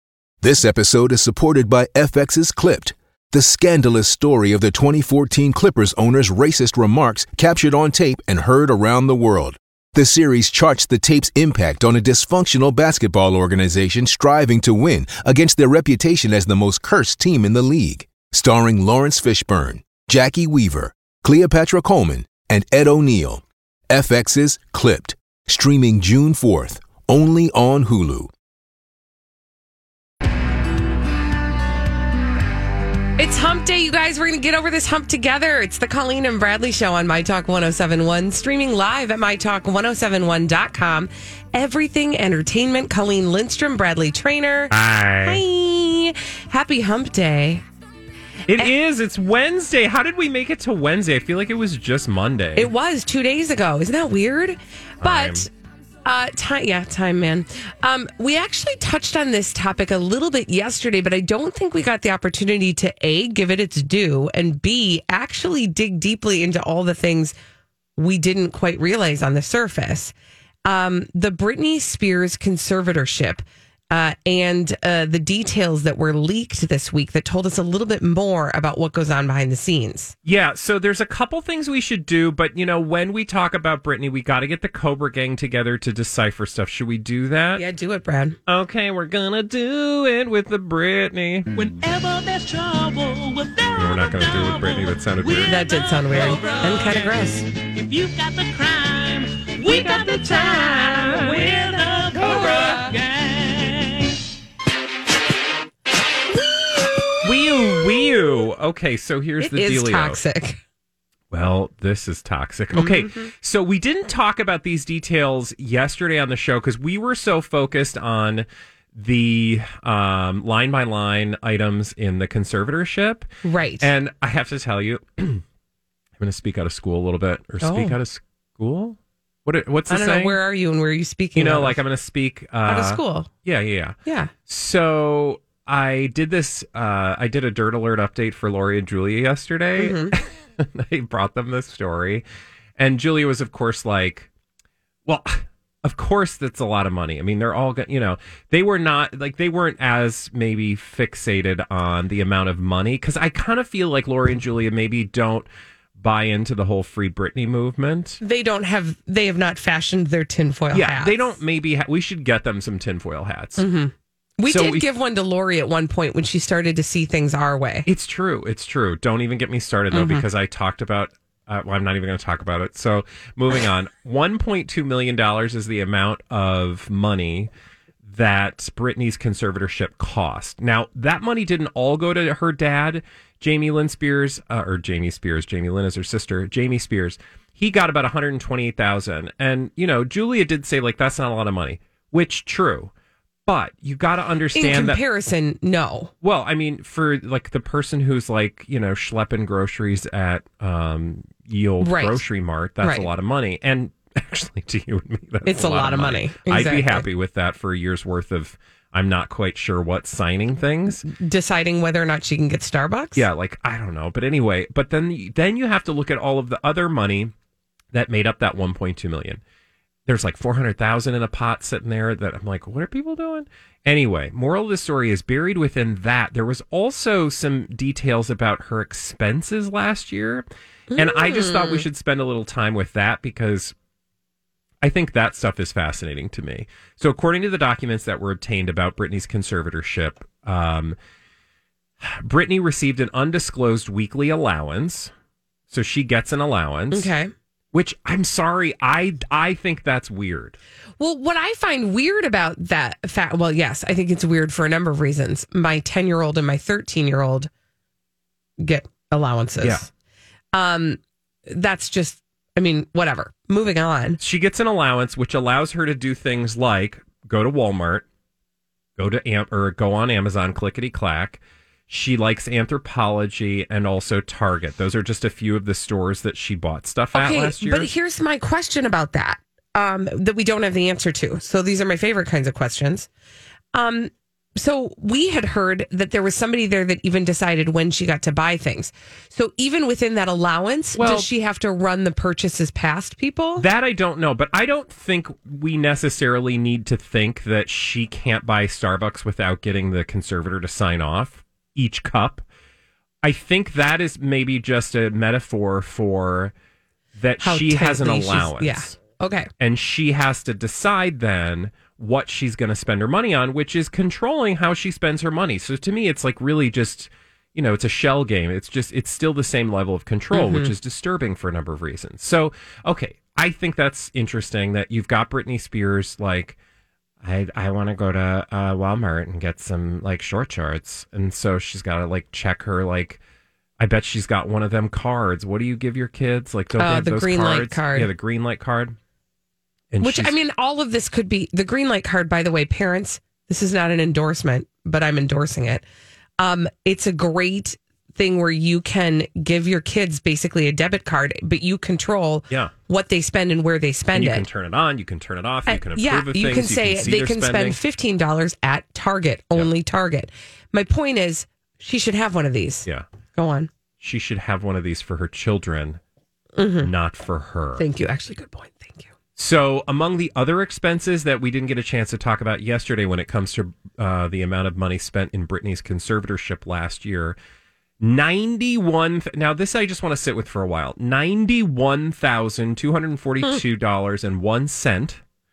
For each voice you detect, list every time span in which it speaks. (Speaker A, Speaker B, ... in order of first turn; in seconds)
Speaker A: 0.4-28.3
Speaker B: 33.2-47.6, 52.6-55.5, 56.0-67.3, 68.0-70.1, 70.7-80.1, 87.6-88.4, 95.4-97.5, 102.2-102.9, 106.5-108.3, 109.4-110.6, 112.7-113.3, 123.4-123.9, 127.6-128.0, 129.9-131.8, 132.6-133.3, 134.1-134.3, 139.8-140.2, 158.2-161.2, 163.6-167.9, 169.9-170.2, 194.5-196.1, 201.8-202.2, 202.8-203.1, 205.4-207.0, 211.0-213.2, 230.9-231.8, 246.9-247.3, 251.0-257.5, 258.6-259.9, 260.5-264.2, 277.1-283.1, 283.7-293.7, 307.4-309.5, 320.3-320.7, 336.8-338.1, 340.0-345.9, 346.4-354.4, 355.7-363.7, 366.6-366.9, 367.8-369.1
Speaker C: 44.7-45.4, 48.5-52.7, 55.0-55.5, 80.2-87.7, 88.5-91.5, 93.8-95.6, 99.7-101.6, 107.2-110.2, 111.3-123.3, 123.8-125.4, 126.2-130.4, 131.3-142.2, 142.8-144.3, 145.1-158.2, 160.7-163.6, 164.5-164.8, 167.8-177.5, 178.1-192.9, 193.4-195.0, 196.2-211.1, 213.2-217.3, 217.9-219.4, 220.1-233.7, 234.8-241.0, 242.0-245.1, 245.7-247.1, 247.7-250.6, 264.2-268.1, 269.0-277.9, 291.0-291.3, 293.6-302.4, 303.2-306.5, 307.1-309.0, 309.6-326.6, 327.2-333.2, 333.8-339.0, 339.9-340.3, 354.1-357.8, 364.0-366.0, 366.8-367.8, 369.4-377.4, 378.0-385.2
Speaker D: 91.5-104.2